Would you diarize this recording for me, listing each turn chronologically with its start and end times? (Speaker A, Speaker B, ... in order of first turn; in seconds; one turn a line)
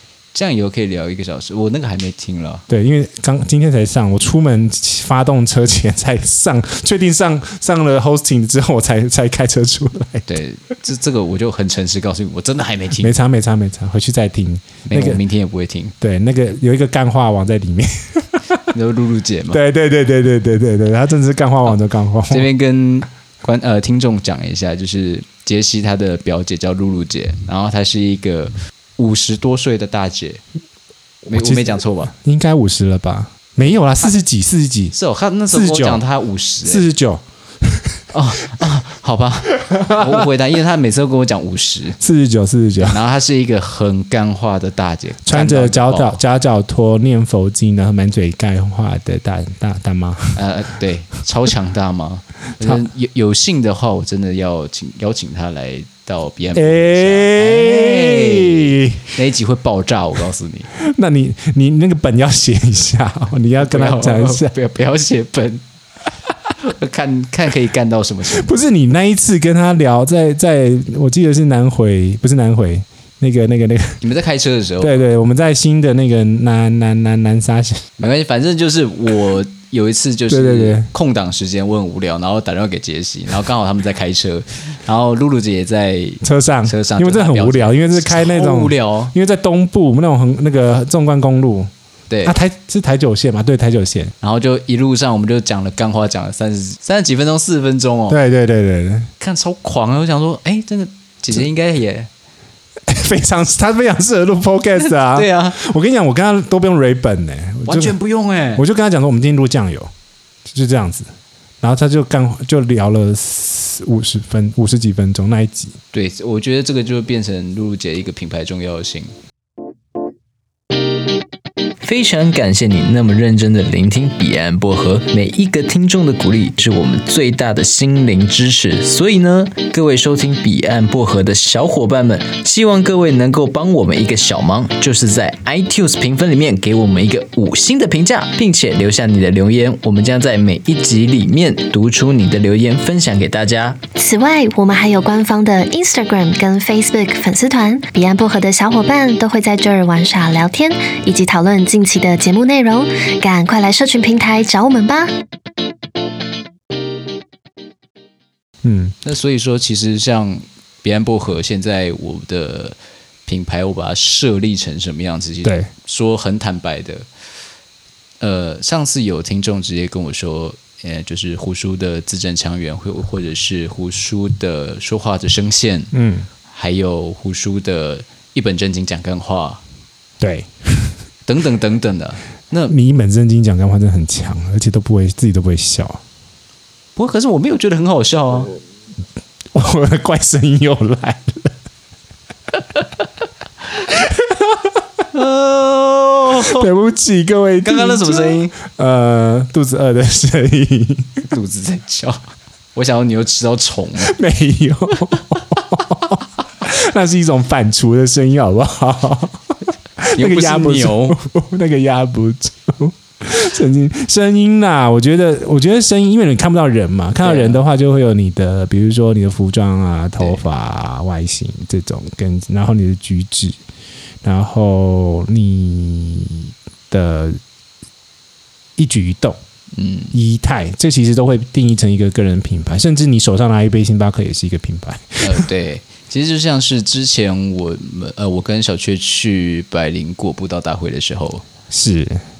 Speaker A: 0.3-2.6
Speaker B: 2.7-10.2
Speaker A: 10.3-13.1
Speaker B: 13.0-15.2
Speaker A: 14.8-15.9
Speaker B: 16.0-18.6
Speaker A: 18.7-19.6
Speaker B: 19.5-22.5
Speaker A: 22.3-30.4
Speaker A: 31.2-32.1
Speaker B: 31.3-34.9
Speaker A: 34.9-36.9
Speaker B: 35.5-36.0
Speaker B: 36.6-38.0
Speaker A: 38.1-42.0
Speaker B: 39.6-40.2
Speaker B: 42.0-43.0
Speaker A: 42.8-46.2
Speaker B: 45.2-50.4
Speaker A: 50.4-60.7
Speaker B: 56.5-59.0
Speaker B: 60.7-64.5
Speaker A: 63.6-65.6
Speaker A: 66.6-68.5
Speaker B: 68.3-74.0
Speaker A: 74.0-75.0
Speaker B: 74.8-77.8
Speaker A: 78.0-89.1
Speaker B: 80.3-80.9
Speaker B: 86.2-91.7
Speaker A: 92.1-92.3
Speaker B: 92.2-94.1
Speaker A: 94.2-98.2
Speaker B: 98.1-99.1
Speaker A: 99.2-102.1
Speaker B: 102.9-108.0
Speaker A: 105.0-105.6
Speaker A: 107.7-108.6
Speaker B: 108.5-109.9
Speaker B: 110.5-111.1
Speaker B: 111.6-115.8
Speaker A: 115.9-119.1
Speaker A: 121.8-143.8
Speaker C: 144.0-155.1
Speaker B: 158.6-158.9
Speaker A: 159.0-167.1
Speaker A: 168.2-175.9
Speaker B: 175.9-176.3
Speaker A: 176.5-179.6
Speaker B: 180.2-180.9
Speaker A: 181.2-182.7
Speaker B: 182.7-186.0
Speaker A: 186.9-188.5
Speaker B: 189.5-191.5
Speaker B: 193.9-194.8
Speaker A: 195.1-196.7
Speaker B: 196.4-201.3
Speaker A: 197.6-198.5
Speaker A: 201.3-202.2
Speaker A: 202.7-204.2
Speaker B: 204.0-209.4
Speaker B: 210.0-223.6
Speaker A: 210.1-211.2
Speaker A: 217.2-217.6
Speaker B: 224.2-227.4
Speaker B: 228.8-229.4
Speaker A: 229.7-230.1
Speaker B: 230.1-235.4
Speaker A: 235.2-241.4
Speaker B: 241.7-242.2